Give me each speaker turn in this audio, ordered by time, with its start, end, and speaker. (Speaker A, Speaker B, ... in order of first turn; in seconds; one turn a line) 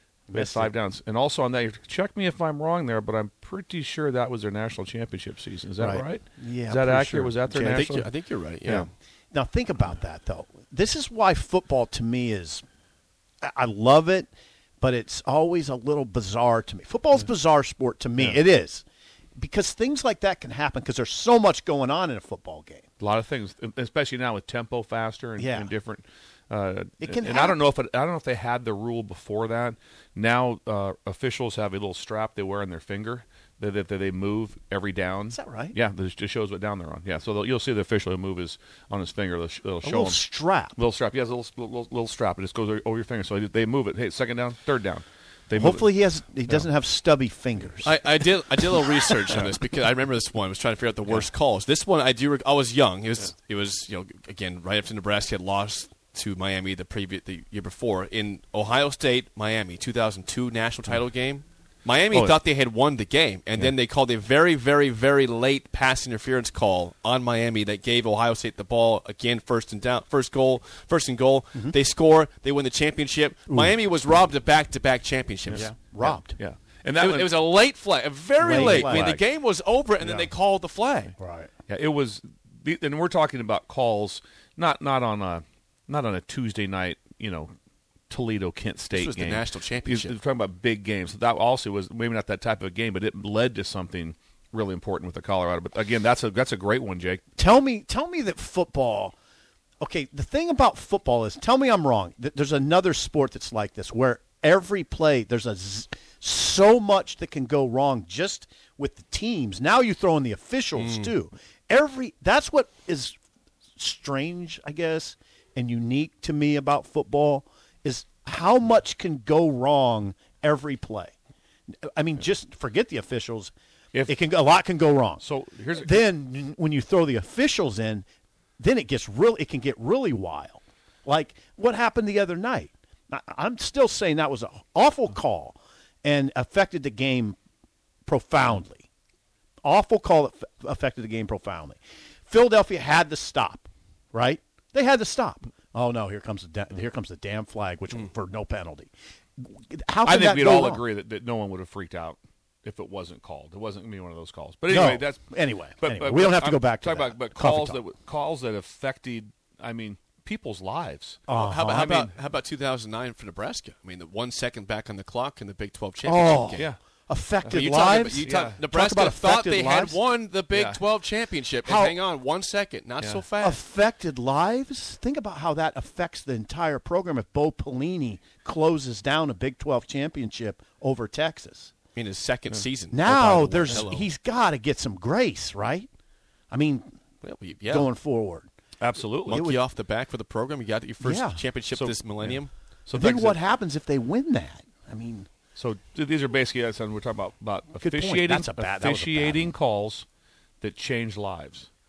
Speaker A: 0.3-0.7
Speaker B: 0.3-8.1
Speaker A: 5.8-7.9
Speaker C: 7.6-8.9
Speaker A: 9.3-12.6
Speaker A: 13.4-18.8
Speaker A: 19.4-22.9
Speaker B: 23.0-40.2
Speaker A: 25.4-25.7
Speaker A: 27.0-27.6
Speaker A: 35.3-35.7
Speaker A: 39.8-40.8
Speaker B: 40.8-45.8
Speaker A: 45.5-48.0
Speaker C: 47.8-75.7
Speaker A: 48.8-49.3
Speaker B: 75.5-77.4
Speaker A: 75.5-76.3
Speaker C: 77.0-81.1
Speaker A: 78.4-79.2
Speaker B: 78.4-79.2
Speaker A: 81.2-81.5
Speaker B: 81.7-87.5
Speaker B: 88.1-97.2
Speaker C: 88.9-90.1
Speaker A: 97.4-99.1
Speaker A: 99.8-113.2
Speaker C: 110.8-111.1
Speaker A: 113.8-121.1
Speaker A: 121.7-123.5
Speaker A: 124.0-125.2
Speaker B: 125.2-126.0
Speaker A: 125.8-128.1
Speaker A: 128.6-137.4
Speaker A: 138.1-138.8
Speaker A: 139.6-150.8
Speaker B: 150.0-155.3
Speaker A: 154.7-157.8
Speaker B: 155.8-162.1
Speaker A: 161.3-162.0
Speaker C: 161.3-166.7
Speaker A: 166.0-170.0
Speaker B: 167.4-167.7
Speaker C: 167.5-173.6
Speaker B: 168.2-168.6
Speaker B: 170.5-170.8
Speaker A: 171.6-172.0
Speaker A: 173.4-181.7
Speaker C: 181.9-184.1
Speaker A: 182.9-185.9
Speaker A: 186.5-186.9
Speaker C: 187.2-187.9
Speaker A: 187.7-188.5
Speaker B: 188.8-189.4
Speaker A: 189.3-189.6
Speaker C: 189.3-192.5
Speaker A: 191.0-191.4
Speaker B: 191.7-193.4
Speaker A: 192.9-195.3
Speaker B: 195.6-200.1
Speaker A: 197.8-199.5
Speaker B: 200.6-201.7